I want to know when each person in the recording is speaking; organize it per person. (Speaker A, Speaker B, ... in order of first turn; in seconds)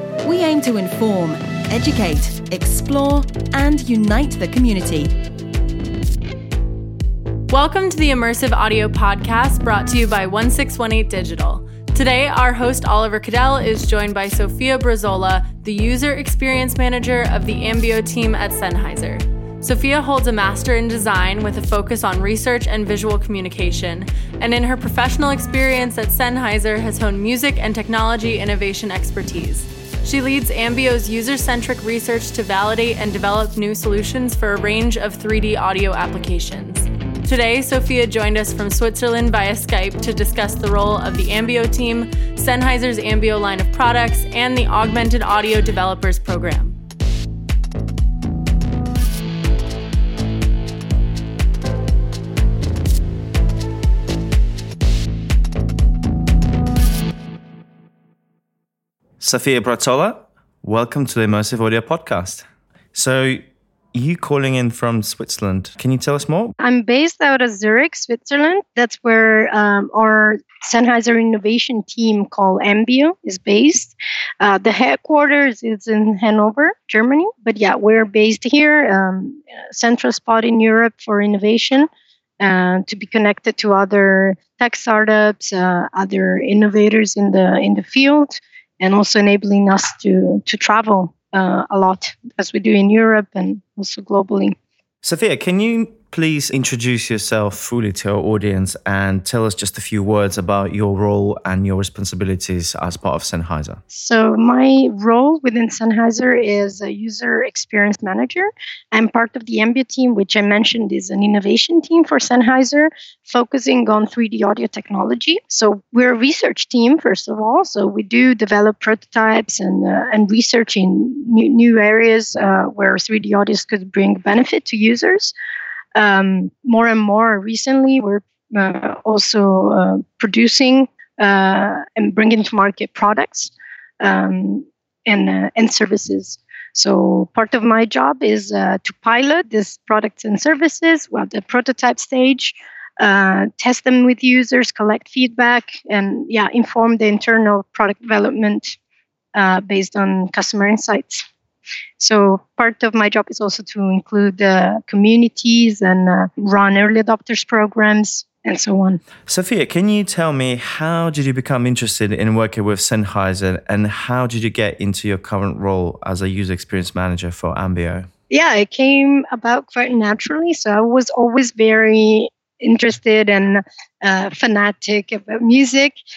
Speaker A: 0.2-5.1
Speaker B: 7.5-46.8
Speaker C: 59.2-66.5, 95.0-103.8, 159.3-168.1
Speaker D: 66.6-81.9, 82.4-94.6, 103.9-125.3, 126.0-148.8, 149.3-151.3, 152.0-159.0, 168.3-176.0